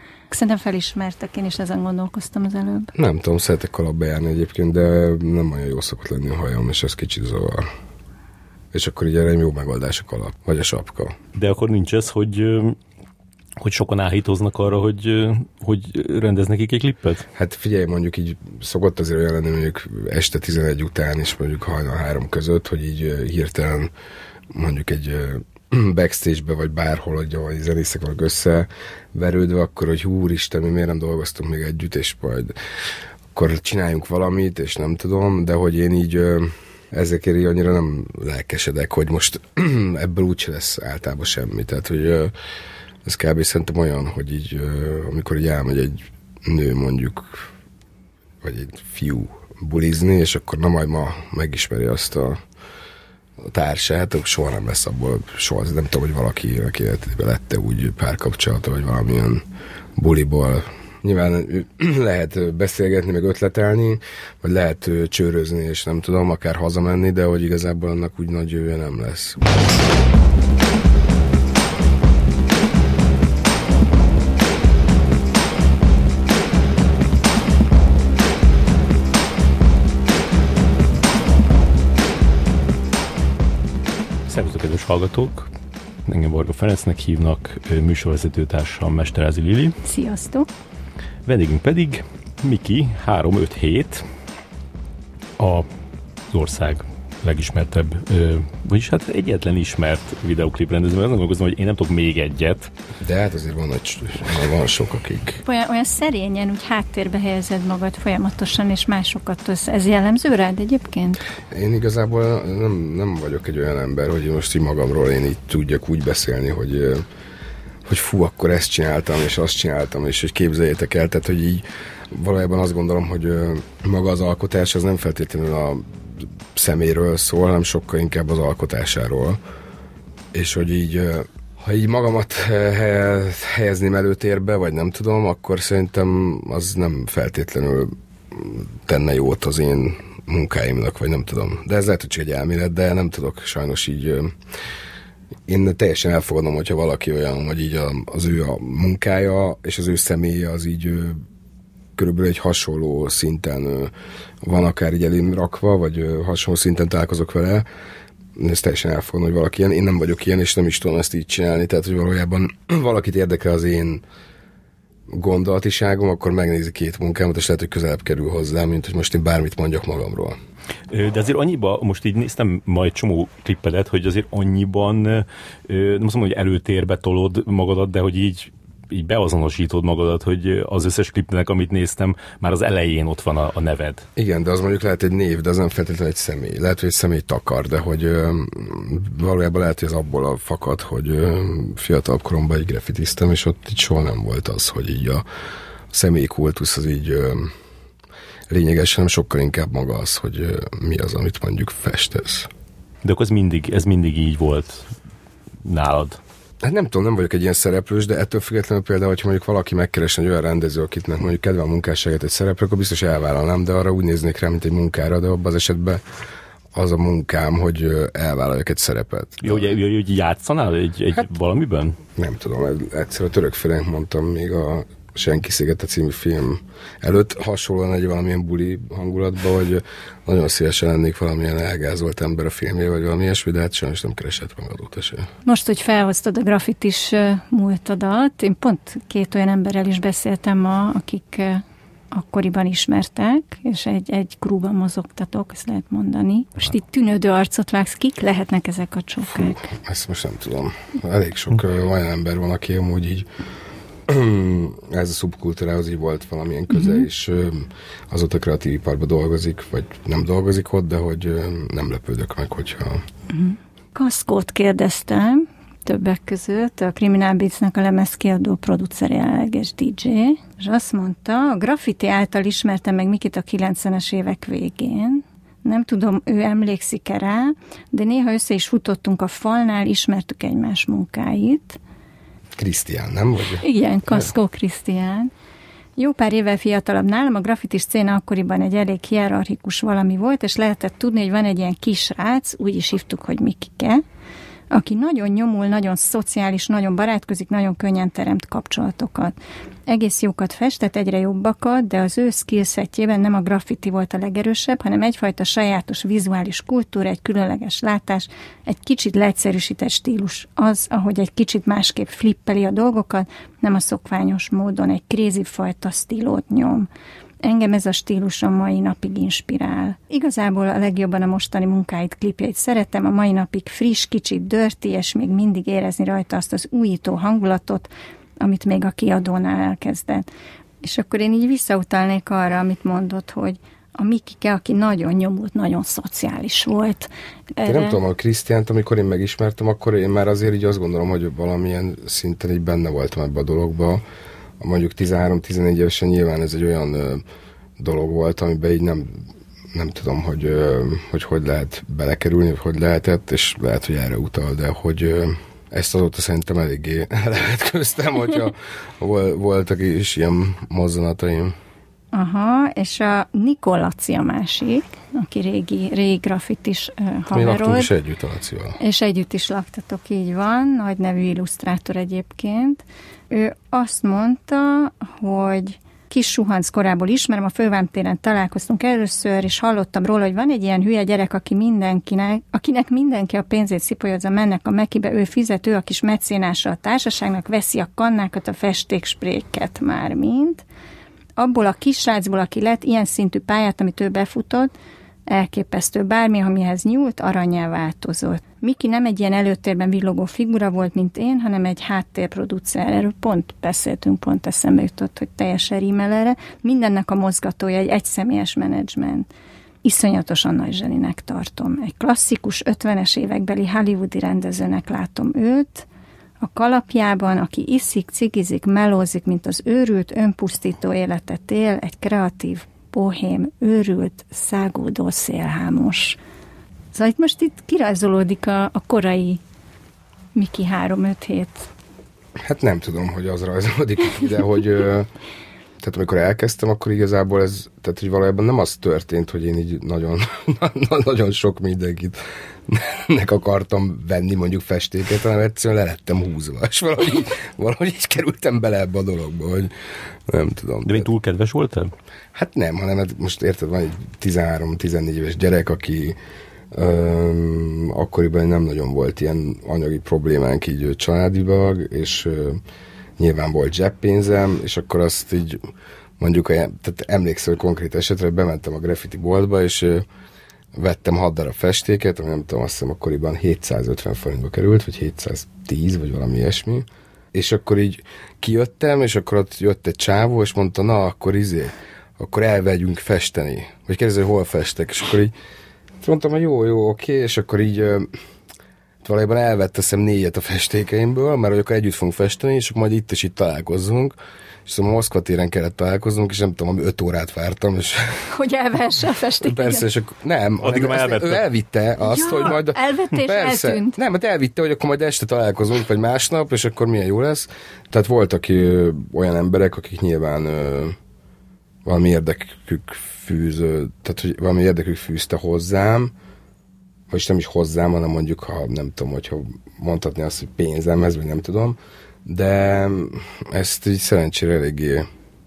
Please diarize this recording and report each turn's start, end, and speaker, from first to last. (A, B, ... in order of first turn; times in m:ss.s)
0:00.3-0:02.9 A
0:02.9-0:07.7 B
0:08.7-0:11.2 B
0:11.3-0:12.8 C
0:13.6-0:17.2 C
0:17.3-0:23.9 B
0:24.5-0:32.6 B
0:33.3-0:42.3 B
0:43.0-0:47.5 B
0:48.4-0:52.4 B
0:53.4-0:59.4 B
1:00.0-1:09.6 B
1:24.3-1:25.5 C
1:26.0-1:29.8 C
1:29.8-1:30.5 A
1:31.2-1:34.0 C
1:35.4-1:35.7 C
1:36.3-1:42.7 C
1:43.0-1:45.4 B
1:45.4-1:51.2 A
1:51.5-1:57.0 B
1:57.8-2:09.4 B
2:10.3-2:24.3 B
2:25.5-2:31.2 B
2:32.0-2:33.9 B
2:34.4-2:37.7 B
2:38.4-2:44.0 B
2:45.1-2:50.4 B
2:50.9-3:04.0 C
3:04.2-3:15.2 B
3:15.9-3:17.5 B
3:18.5-3:22.5 B
3:23.0-3:24.9 C
3:25.6-3:26.2 C
3:26.6-3:36.0 B
3:36.7-3:39.6 B
3:39.4-3:42.0 C
3:42.2-3:55.3 B
3:55.4-4:09.6 A
4:09.3-4:13.3 B
4:14.1-4:23.0 B
4:16.7-4:17.0 A
4:23.3-4:41.8 A
4:42.6-4:44.2 B
4:43.6-4:45.3 A
4:46.0-4:54.0 A
4:54.7-4:59.3 A
4:59.9-5:16.9 A
5:17.4-5:30.3 A
5:30.8-5:38.0 A
5:37.6-5:44.0 B
5:44.6-5:47.2 B
5:47.8-6:01.6 B
6:02.1-6:07.9 A
6:07.3-6:08.8 B
6:08.8-6:30.6 A
6:31.4-6:34.7 A
6:35.3-6:49.3 A
6:49.8-6:55.9 A
6:56.4-7:06.2 A
7:06.9-7:09.4 A
7:10.4-7:11.7 A
7:12.4-7:15.1 B
7:15.8-7:29.7 B
7:30.3-7:31.1 B
7:30.9-7:31.9 C
7:32.4-7:36.2 B
7:36.7-7:42.6 B
7:43.2-7:45.6 B
7:46.2-7:50.0 B
7:50.8-8:05.3 B
8:06.0-8:08.1 B
8:09.0-8:18.3 B
8:18.3-8:19.8 A
8:19.4-8:31.0 B
8:20.6-8:21.4 C
8:22.0-8:24.0 A
8:31.8-8:36.1 B
8:37.1-8:45.1 B